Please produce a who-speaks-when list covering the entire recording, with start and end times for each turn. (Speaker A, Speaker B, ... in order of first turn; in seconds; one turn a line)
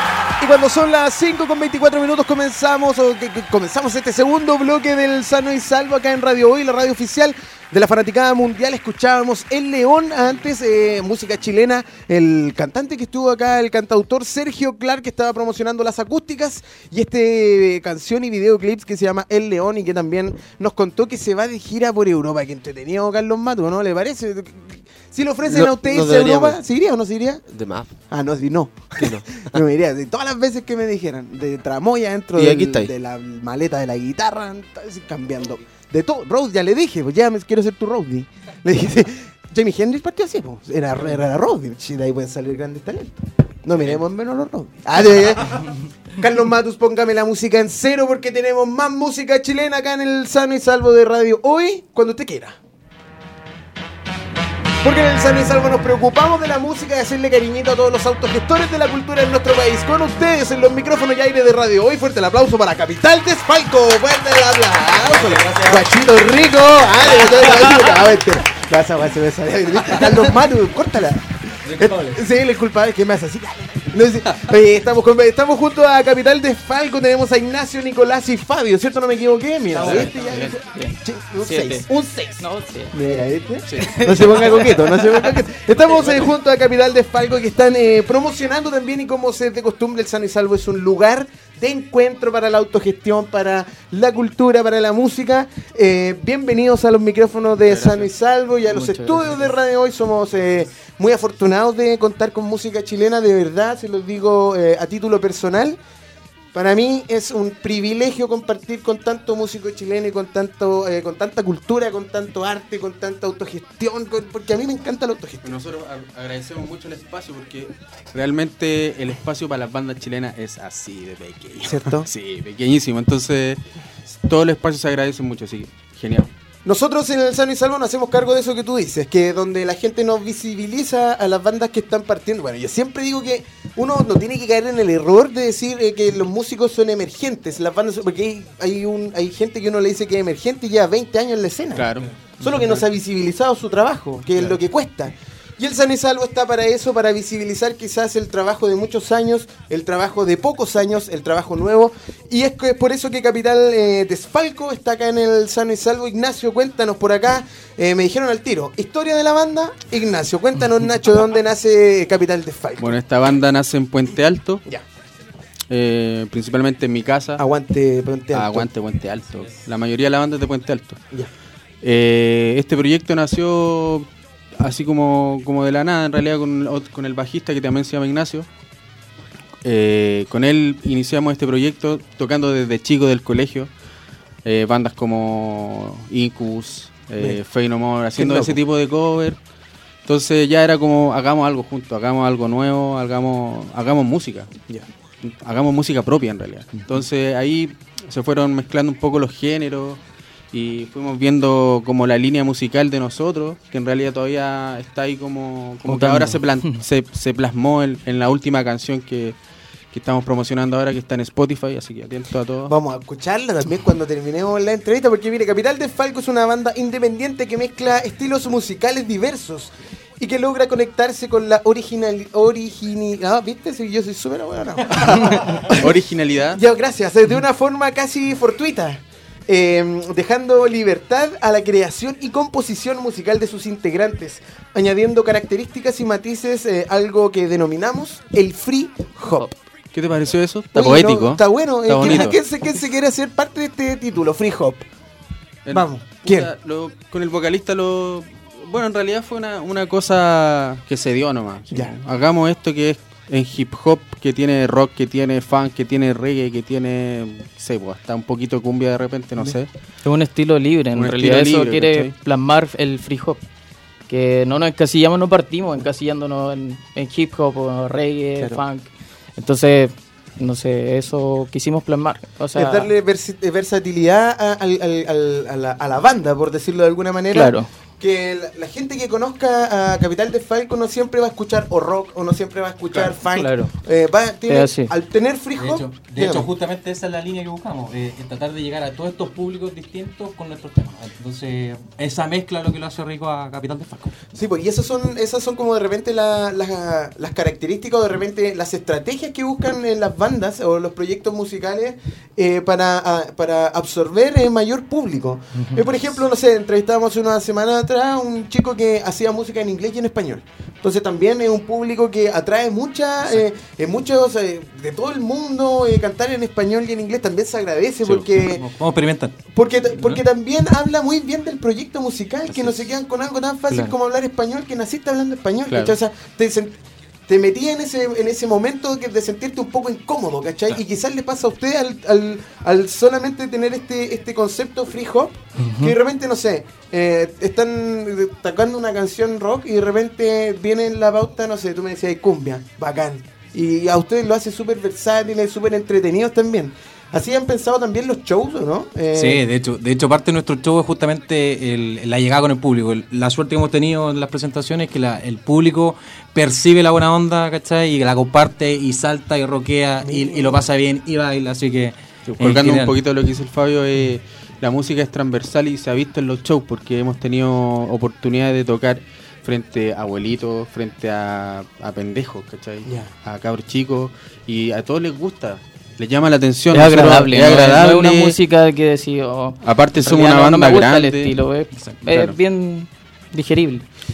Speaker A: 0.4-27.4
Speaker B: 25.5-26.6
Speaker B: 27.5-27.9
Speaker A: 28.1-52.6
Speaker B: 29.0-29.5
Speaker B: 32.4-32.9
Speaker A: 54.8-105.8
Speaker C: 65.0-65.8
Speaker C: 71.7-72.2
Speaker C: 79.7-80.5
Speaker D: 79.8-80.4
Speaker E: 80.5-81.8
Speaker E: 82.4-83.2
Speaker E: 83.8-85.2
Speaker D: 97.7-98.1
Speaker E: 98.7-99.5
Speaker A: 106.5-115.5
Speaker D: 115.4-126.3
Speaker A: 121.7-122.1
Speaker A: 126.6-141.9
Speaker D: 141.8-142.1
Speaker A: 142.4-163.0
Speaker D: 162.8-164.6
Speaker D: 165.7-167.4
Speaker A: 167.4-168.7
Speaker D: 168.3-171.0
Speaker D: 171.8-174.1
Speaker D: 174.6-178.5
Speaker D: 179.6-183.7
Speaker D: 184.4-189.4
Speaker A: 188.2-188.6
Speaker D: 190.0-194.5
Speaker D: 195.2-200.0
Speaker D: 200.5-209.4
Speaker E: 205.9-206.8
Speaker D: 209.9-212.7
Speaker A: 212.7-226.0
Speaker D: 225.1-226.6
Speaker A: 226.5-239.6
Speaker D: 239.9-242.4
Speaker A: 240.7-244.9
Speaker E: 242.0-242.3
Speaker D: 245.6-259.7
Speaker A: 245.7-246.5
Speaker E: 260.0-263.4
Speaker D: 260.9-262.1
Speaker E: 264.1-272.9
Speaker A: 272.5-286.5
Speaker E: 277.3-277.7
Speaker E: 283.3-283.7
Speaker E: 284.5-284.9
Speaker C: 285.6-294.1
Speaker A: 294.3-318.6
Speaker C: 318.1-319.4
Speaker A: 319.5-326.7
Speaker C: 319.9-320.2
Speaker C: 322.5-322.8
Speaker D: 325.7-325.9
Speaker A: 327.3-349.4
Speaker E: 335.6-335.9
Speaker C: 349.1-363.0
Speaker A: 360.0-360.7
Speaker D: 362.4-378.4
Speaker E: 376.7-383.9
Speaker D: 379.6-381.3
Speaker C: 381.7-382.4